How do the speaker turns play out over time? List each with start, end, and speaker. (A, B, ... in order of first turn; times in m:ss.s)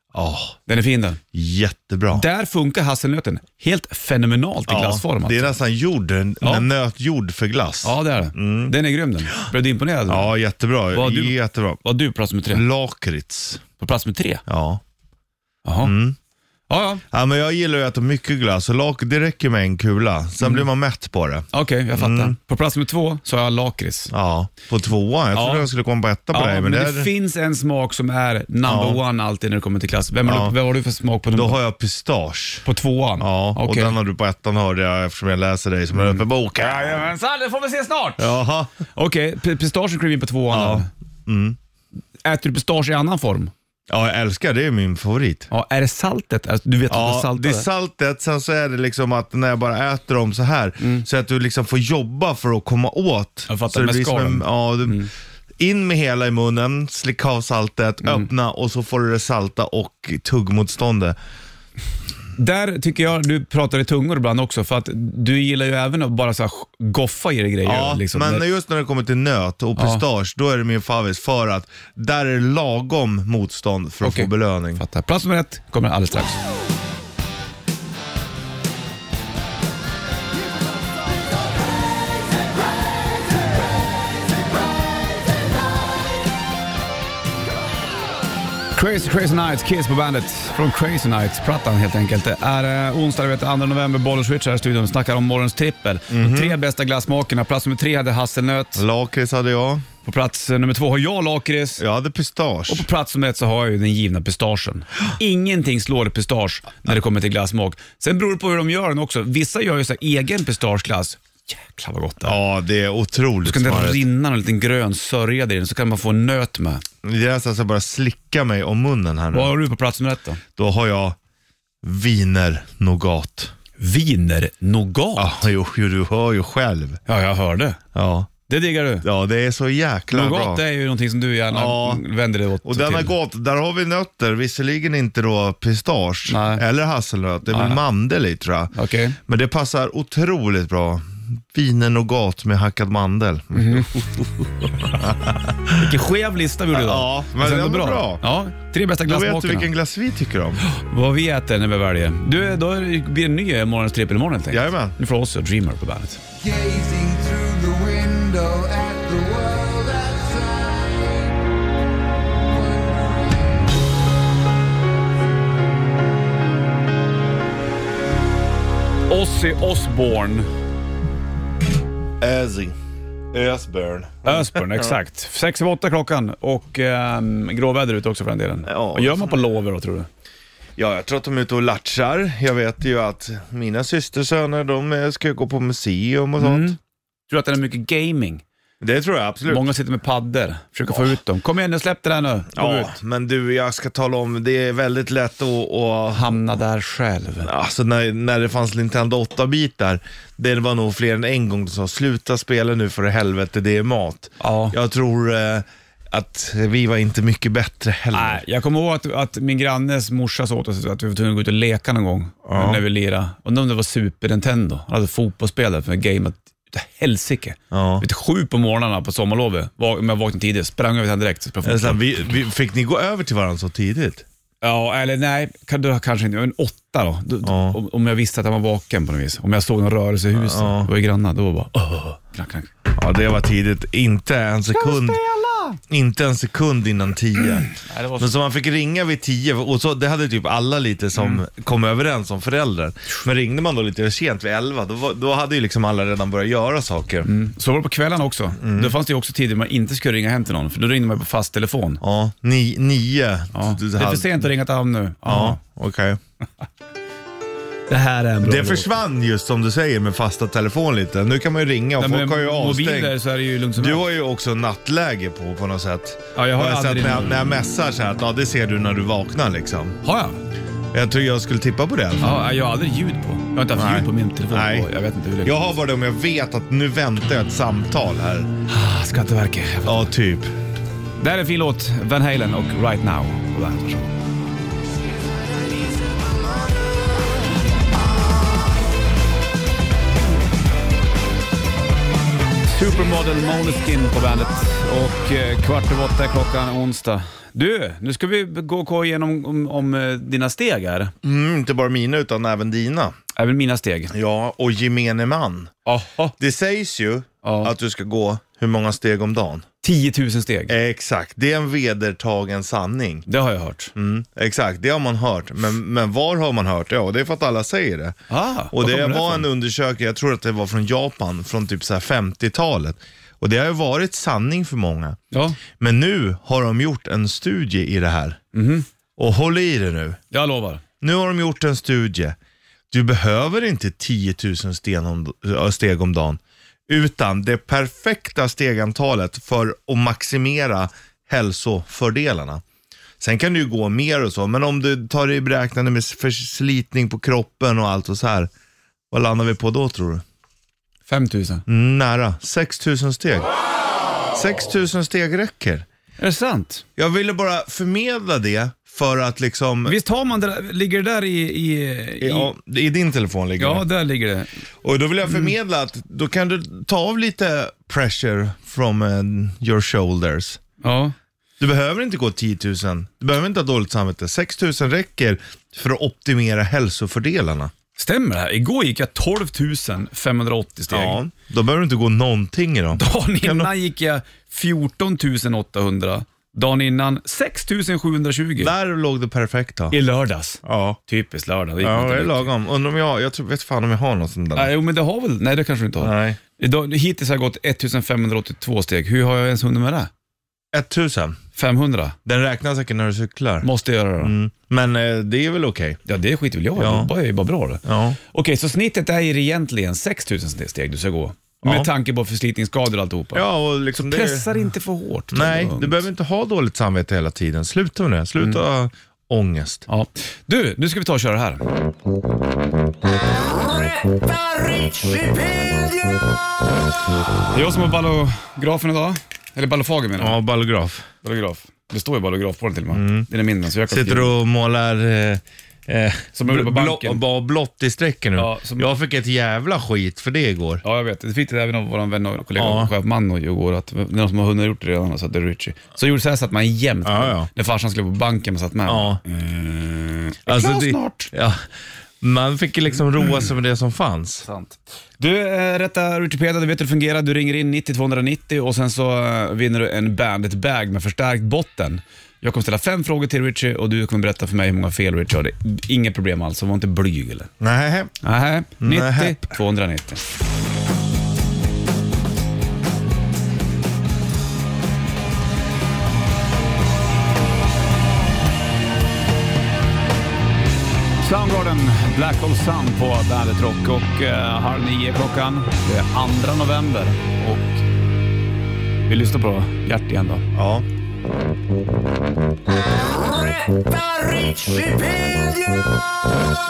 0:00.1-0:00.6 A
0:00.7-0:01.2 B
0:01.3-0:02.2 A
0:02.1-0:05.5 B
0:04.7-0:08.8 A
0:06.4-0:06.7 B
0:07.8-0:10.3 B
0:10.1-0:11.8 A
0:10.9-0:12.6 B
0:12.5-0:13.6 A
0:13.8-0:14.4 B
0:14.5-0:14.8 A
0:15.6-0:15.9 B
0:15.8-0:16.2 A
0:16.7-0:17.0 B
0:17.1-0:22.4 A
0:21.5-0:24.1 B
0:24.1-0:27.1 A
0:25.3-0:25.7 B
0:26.3-0:31.6 B
0:28.6-0:29.0 A
0:30.2-0:30.5 A
0:31.3-0:32.6 A
0:32.6-0:34.0 B
0:33.2-0:37.1 A
0:36.0-0:38.4 B
0:38.2-0:38.7 A
0:38.9-0:40.9 B
0:40.5-0:41.6 A
0:42.2-0:43.5 B
0:43.9-0:45.5 A
0:45.5-0:47.6 B
0:46.9-0:55.1 A
0:53.5-0:55.1 B
0:55.6-1:01.2 A
1:02.4-1:08.4 B
1:07.6-1:14.8 A
1:09.8-1:10.0 B
1:14.0-1:16.4 B
1:28.7-1:38.8 B
1:36.1-1:36.6 A
1:38.8-1:39.9 A
1:40.0-1:41.8 B
1:41.8-1:42.9 A
1:42.7-1:52.4 B
1:52.2-1:54.0 A
1:53.4-1:56.8 B
1:57.0-1:59.5 A
1:59.3-2:00.4 B
2:00.6-2:01.2 A
2:01.8-2:03.5 A
2:03.8-2:05.4 B
2:05.2-2:07.0 A
2:07.0-2:07.8 B
2:07.9-2:08.3 A
2:08.5-2:09.0 B
2:09.0-2:10.6 A
2:10.1-2:13.1 B
2:11.5-2:12.0 A
2:12.6-2:18.7 A
2:16.3-2:16.6 B
2:17.5-2:17.8 B
2:18.7-2:19.2 B
2:19.3-2:25.9 A
2:23.5-2:23.9 B
2:25.7-2:29.7 B
2:26.7-2:28.2 A
2:29.0-2:30.6 A
2:30.6-2:36.2 B
2:34.5-2:35.0 A
2:36.4-2:41.3 C
2:42.4-2:43.7 C
2:49.1-2:50.5 B
2:52.2-2:52.8 A
2:53.3-2:55.0 A
2:54.2-3:00.1 B
2:58.7-2:59.4 A
3:00.8-3:06.7 A
3:06.4-3:06.8 B
3:07.3-3:08.4 B
3:08.8-3:09.7 A
3:09.5-3:12.9 B
3:12.5-3:16.3 A
3:16.1-3:17.5 B
3:17.4-3:28.4 A
3:24.4-3:24.8 B
3:28.1-3:42.0 B
3:32.4-3:32.8 A
3:37.7-3:38.0 A
3:41.6-3:44.2 A
3:44.6-3:52.7 B
3:47.4-3:47.8 A
3:50.3-3:50.9 A
3:52.9-3:55.2 A
3:54.7-3:55.8 B
3:55.9-4:07.3 A
3:57.7-3:58.3 B
4:07.2-4:12.0 B
4:08.6-4:08.9 A
4:12.0-4:14.4 A
4:13.5-4:15.6 B
4:15.2-4:16.2 A
4:17.9-4:18.9 B
4:18.4-4:23.2 A
4:22.0-4:24.0 B
4:23.8-4:30.0 A
4:26.3-4:27.4 B
4:30.0-4:30.4 B
4:30.9-4:32.3 A
4:32.2-4:35.7 B
4:33.7-4:34.9 A
4:35.4-4:38.5 A
4:38.7-4:40.1 B
4:39.8-4:40.5 A
4:41.2-4:44.1 B
4:52.6-5:01.1 B
5:01.2-5:03.1 A
5:03.3-5:04.1 B
5:04.1-5:05.7 A
5:05.9-5:06.3 B
5:06.4-5:09.6 A
5:07.4-5:07.7 B
5:09.8-5:10.7 B
5:10.7-5:13.2 A
5:13.3-5:13.9 B
5:13.9-5:18.2 A
5:18.3-5:19.5 B
5:18.7-5:25.2 A
5:25.3-5:25.6 B
5:25.7-5:28.4 A
5:28.5-5:28.9 B
5:29.2-5:30.2 A
5:30.3-5:30.8 B
5:31.0-5:32.4 A
5:32.9-5:42.6 A
5:43.2-5:48.5 A
5:49.1-5:50.2 A
5:51.1-5:51.6 B
5:51.7-5:53.5 A
5:54.2-5:55.8 A
5:56.2-5:56.8 B
5:57.0-6:00.0 A
5:59.9-6:02.5 B
6:02.2-6:03.8 A
6:03.6-6:04.5 B
6:04.8-6:10.6 A
6:10.8-6:11.1 B
6:11.6-6:17.7 A
6:18.0-6:21.2 B
6:20.9-6:23.7 A
6:22.9-6:28.7 B
6:28.6-6:29.9 A
6:29.9-6:32.5 B
6:30.6-6:31.0 A
6:31.8-6:34.7 A
6:34.5-6:40.1 B
6:36.0-6:36.4 A
6:40.7-6:41.4 A
6:41.6-6:42.2 B
6:42.2-6:43.7 A
6:43.6-6:44.3 B
6:44.2-6:46.0 A
6:46.0-6:56.1 B
6:46.8-6:47.1 A
6:47.8-6:48.2 A
6:51.6-6:51.9 A
6:53.3-6:54.5 A
6:55.3-6:59.8 A
6:59.9-7:01.6 B
7:03.8-7:06.2 C
7:07.5-7:10.4 B
7:10.2-7:11.1 A
7:11.2-7:14.4 B
7:12.9-7:13.3 A
7:13.9-7:20.8 A
7:16.3-7:17.2 B
7:18.4-7:18.9 B
7:20.8-7:31.3 B
7:22.6-7:22.9 A
7:27.0-7:27.5 A
7:28.9-7:29.2 A
7:30.5-7:31.6 A
7:32.2-7:34.5 A
7:34.4-7:47.5 B
7:47.6-7:48.1 A
7:48.2-7:50.2 B
7:48.8-7:49.5 A
8:01.2-8:07.8 B
8:09.1-8:10.4 B
8:10.5-8:10.8 A
8:12.8-8:15.9 C